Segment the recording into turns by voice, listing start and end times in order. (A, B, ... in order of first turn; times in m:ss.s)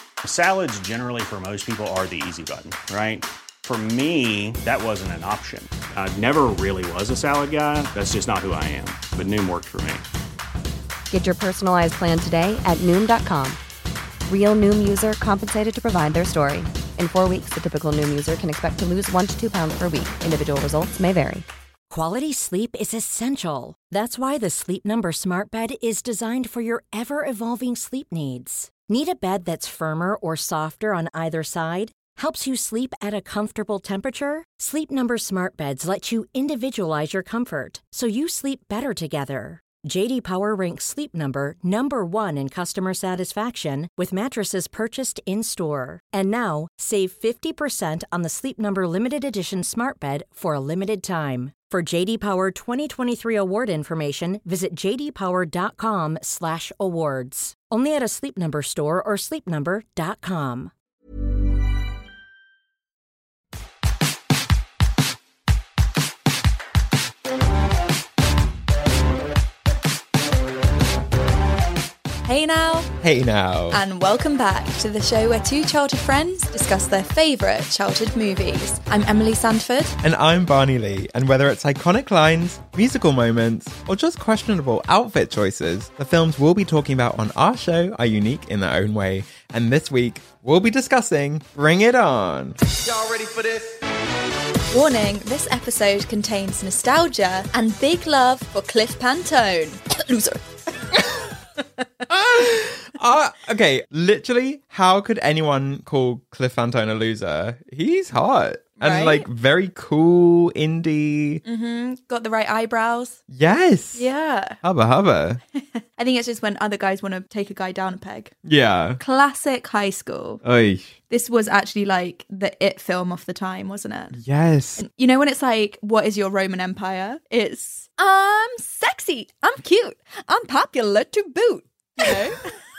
0:00.2-0:10.0 A
0:11.1-0:13.6 B
0:14.3-0:21.4 B
0:21.9-1:00.7 C
1:12.2-1:12.9 D
1:13.0-1:13.8 E
1:13.7-1:20.0 D
1:20.0-1:33.6 E
1:34.7-1:41.8 D
1:42.1-1:51.4 E
1:48.8-1:49.2 D
1:51.4-1:53.2 D
1:53.3-1:54.1 E
1:53.9-1:54.6 D
1:54.6-1:55.4 E
1:56.0-1:58.3 D
1:58.4-1:59.0 E
1:59.0-2:00.4 D
2:00.4-2:01.0 E
2:01.1-2:04.2 D
2:04.1-2:04.9 E
2:04.8-2:12.6 D